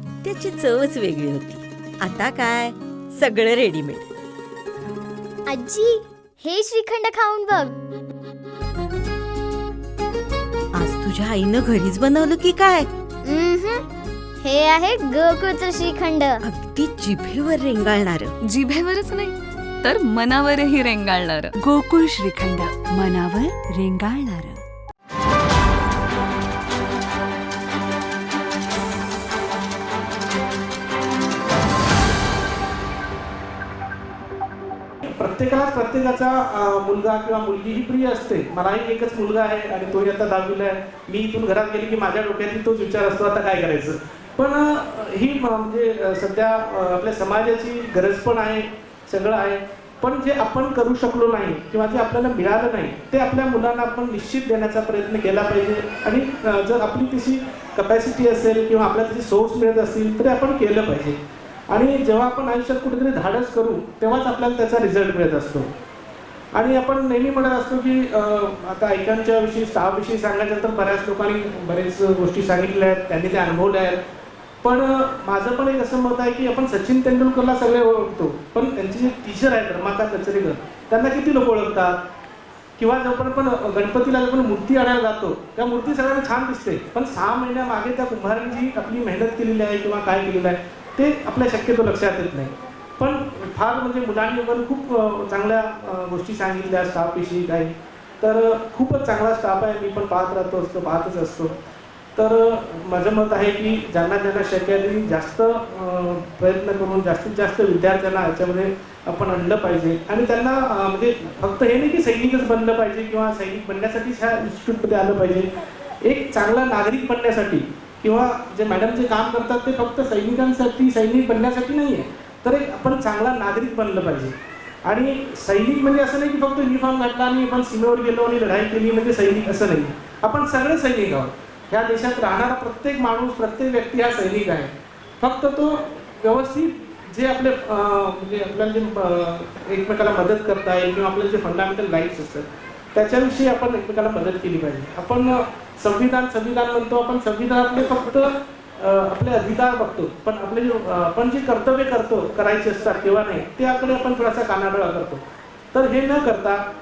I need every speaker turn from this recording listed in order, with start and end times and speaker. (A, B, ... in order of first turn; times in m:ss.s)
0:00.2-0:04.1 A
0:05.5-0:07.8 B
0:10.7-0:12.9 A
0:13.2-0:13.9 B
0:14.4-0:16.4 B
0:16.4-0:18.3 A
0:18.4-0:21.5 C
0:21.6-0:24.6 D
0:35.0-1:01.2 E
1:01.7-1:05.7 E
1:06.5-1:14.0 E
1:14.6-1:22.0 E
1:22.8-1:41.6 E
1:42.2-1:55.5 E
1:56.0-2:35.2 E
2:35.7-2:36.6 E